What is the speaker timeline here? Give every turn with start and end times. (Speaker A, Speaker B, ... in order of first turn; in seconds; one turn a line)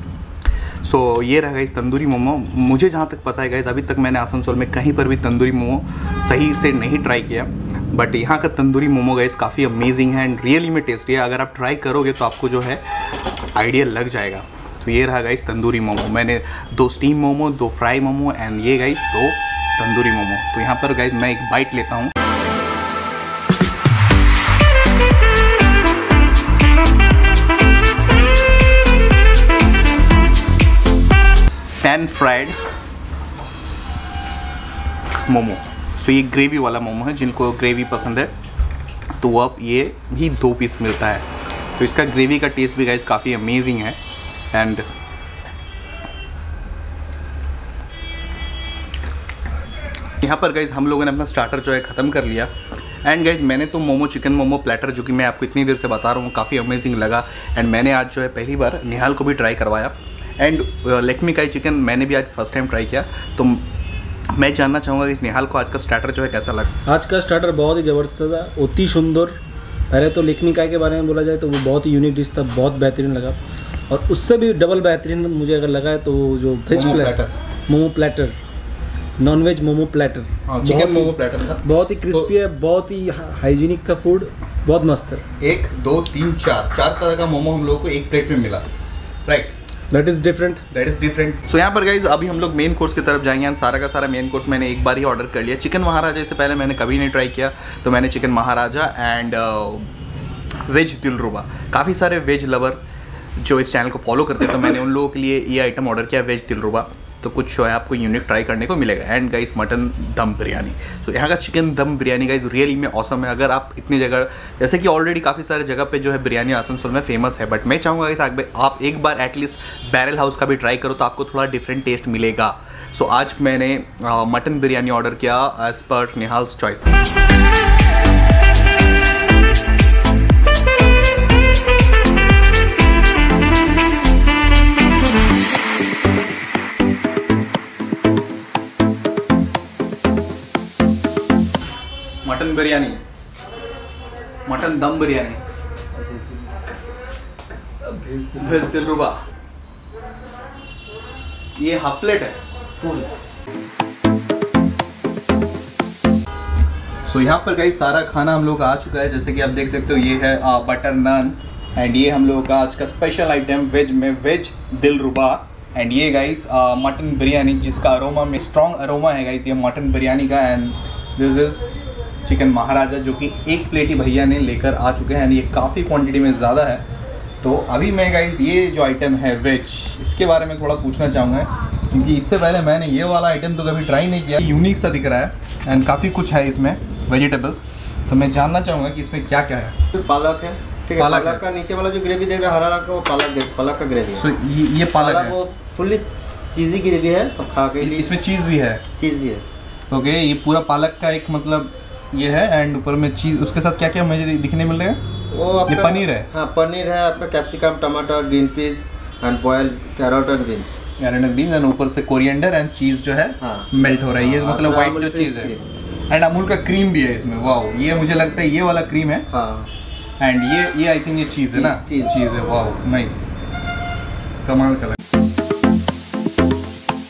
Speaker A: 0.8-12.9
Speaker A: 13.4-22.1
Speaker A: 31.8-32.6
Speaker A: 35.2-38.3
Speaker A: 39.2-41.2
Speaker A: 41.8-44.0
Speaker A: 44.5-44.9
Speaker A: 50.2-52.5
Speaker A: 53.0-63.7
Speaker A: 64.3-66.7
Speaker B: 66.9-69.4
Speaker B: 69.9-73.4
Speaker B: 73.9-78.4
Speaker A: 76.7-77.4
Speaker B: 79.2-85.2
Speaker A: 80.5-82.3
Speaker A: 85.4-88.6
Speaker A: 89.2-89.5
Speaker B: 89.9-90.6
Speaker A: 90.7-99.9
Speaker A: 100.7-102.8
Speaker A: 103.4-127.0
Speaker A: 142.2-143.0
Speaker A: 144.5-145.4
Speaker C: 145.9-146.5
Speaker C: 147.9-148.3
Speaker A: 148.3-149.2
Speaker A: 151.6-152.4
Speaker C: 152.8-153.1
Speaker A: 157.1-176.8
Speaker A: 177.4-189.8
Speaker C: 189.9-194.2
Speaker A: 191.0-191.4
Speaker A: 194.2-195.3
Speaker C: 194.9-198.1
Speaker A: 197.8-198.8
Speaker C: 199.0-199.4
Speaker A: 199.9-205.0
Speaker C: 205.3-210.8
Speaker A: 205.7-206.3
Speaker A: 211.0-215.6
Speaker C: 213.4-215.6
Speaker A: 216.1-219.3
Speaker C: 219.3-219.7
Speaker A: 220.2-223.3
Speaker C: 221.5-222.2
Speaker A: 224.4-225.0